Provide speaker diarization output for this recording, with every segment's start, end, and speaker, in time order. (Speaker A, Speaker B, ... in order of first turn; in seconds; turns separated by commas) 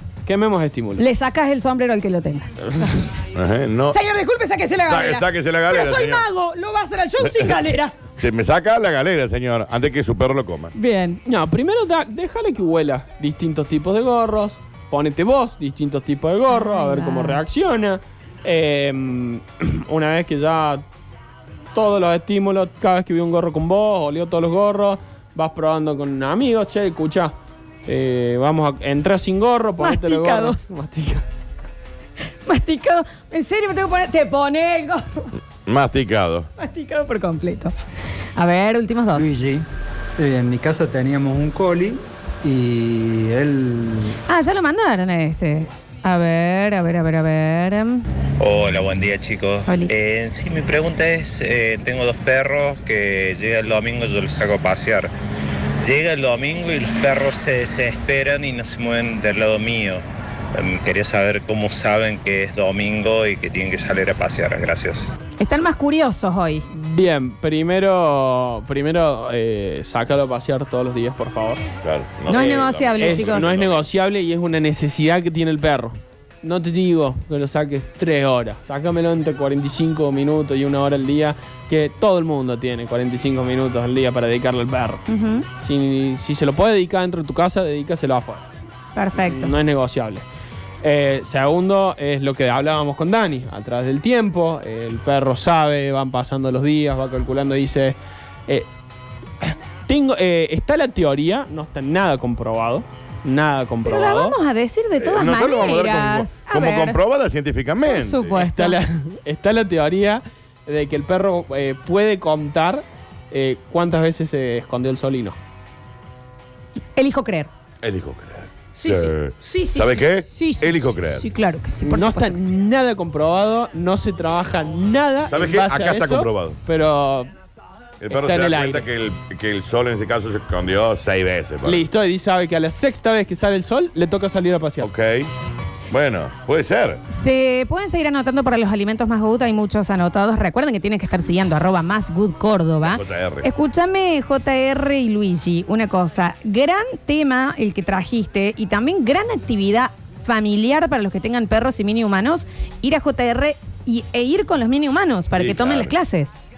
Speaker A: 0.2-1.0, Speaker B: 1.0-3.1, Speaker A: 2.6-3.0, Speaker C: 3.3-4.0, Speaker B: 3.9-8.1, Speaker C: 4.9-6.2, Speaker C: 7.2-7.6, Speaker C: 8.2-10.7, Speaker B: 10.7-11.2, Speaker A: 11.2-20.8, Speaker B: 16.5-17.4, Speaker A: 21.7-27.3, Speaker A: 27.9-31.2, Speaker B: 29.8-30.6, Speaker B: 32.5-35.3, Speaker C: 35.6-36.5, Speaker B: 36.6-37.7, Speaker B: 38.4-39.3, Speaker D: 39.1-44.2, Speaker B: 44.3-48.0, Speaker E: 48.4-55.1, Speaker B: 49.7-49.9, Speaker E: 55.8-65.1, Speaker B: 65.4-66.7, Speaker A: 66.7-71.6, Speaker C: 71.8-73.8, Speaker A: 72.3-85.0, Speaker B: 72.3-73.5, Speaker B: 85.1-85.5, Speaker A: 85.6-88.5, Speaker B: 89.0-89.5, Speaker A: 89.1-90.2, Speaker A: 90.8-98.0, Speaker A: 99.4-104.3, Speaker B: 103.8-107.0, Speaker C: 105.0-108.4, Speaker B: 107.8-108.8, Speaker A: 108.3-115.4, Speaker B: 117.0-117.5, Speaker C: 117.8-121.2, Speaker B: 118.7-122.4, Speaker A: 121.8-127.3, Speaker C: 125.2-126.6, Speaker C: 128.0-131.8, Speaker A: 128.1-128.8, Speaker A: 131.6-134.9, Speaker C: 134.8-135.3, Speaker C: 135.9-137.0, Speaker B: 137.1-156.3, Speaker C: 142.8-143.5, Speaker C: 155.3-155.9